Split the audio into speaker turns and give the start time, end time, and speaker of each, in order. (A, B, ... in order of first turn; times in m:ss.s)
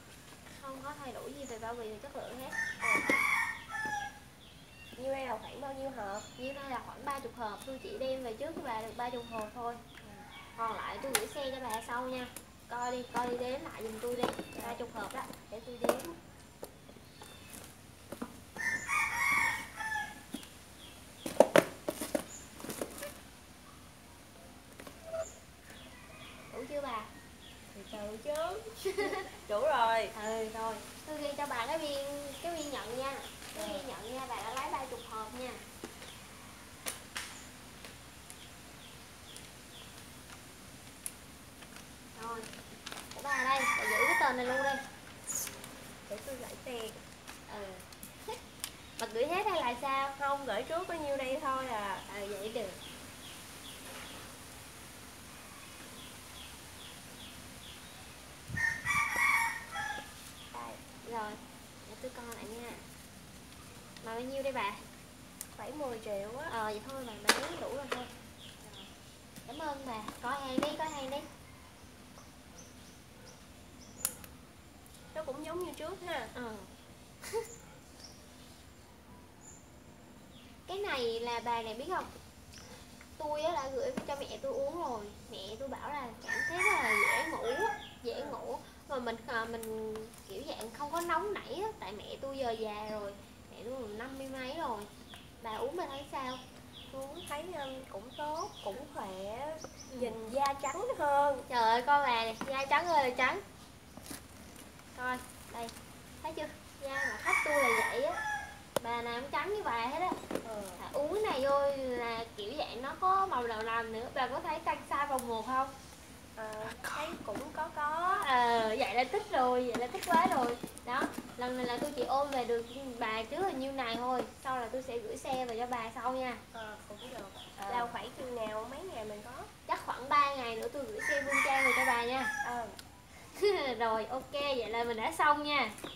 0:00.6-0:02.6 A
0:02.8-0:03.1 B
0:05.0-0:06.3 B
0:06.4-0:09.9 A
0:10.6-0:15.2 A
0:14.6-0:16.1 B
0:26.5-0:27.1 A
0:27.7-0:30.1 B
0:28.8-0:29.2 A
0:30.1-0:35.6 A
0:33.5-0:33.9 B
0:42.1-0:42.5 A
0:43.1-0:44.8 A
0:46.1-0:47.0 B
0:47.5-0:47.8 A
0:49.0-0:50.2 A
0:50.2-0:52.0 B
0:52.1-0:52.8 A
1:00.5-1:00.8 B
1:01.0-1:02.8 A
1:04.0-1:04.8 A
1:05.6-1:06.5 B
1:06.5-1:08.1 A
1:09.5-1:11.3 A
1:15.1-1:16.3 B
1:16.3-1:16.7 A
1:20.7-1:22.1 A
1:23.2-1:34.9 A
1:28.1-1:28.4 B
1:35.4-1:36.4 A
1:36.9-1:41.5 B
1:39.9-1:40.2 A
1:41.5-1:43.4 A
1:45.0-1:48.2 A
1:48.8-1:50.2 A
1:50.4-1:50.8 B
1:50.8-1:55.7 A
1:56.4-1:58.3 B
1:58.0-2:06.4 A
2:06.5-2:09.5 B
2:07.6-2:08.0 A
2:09.7-2:12.3 A
2:12.4-2:12.8 B
2:13.3-2:15.7 A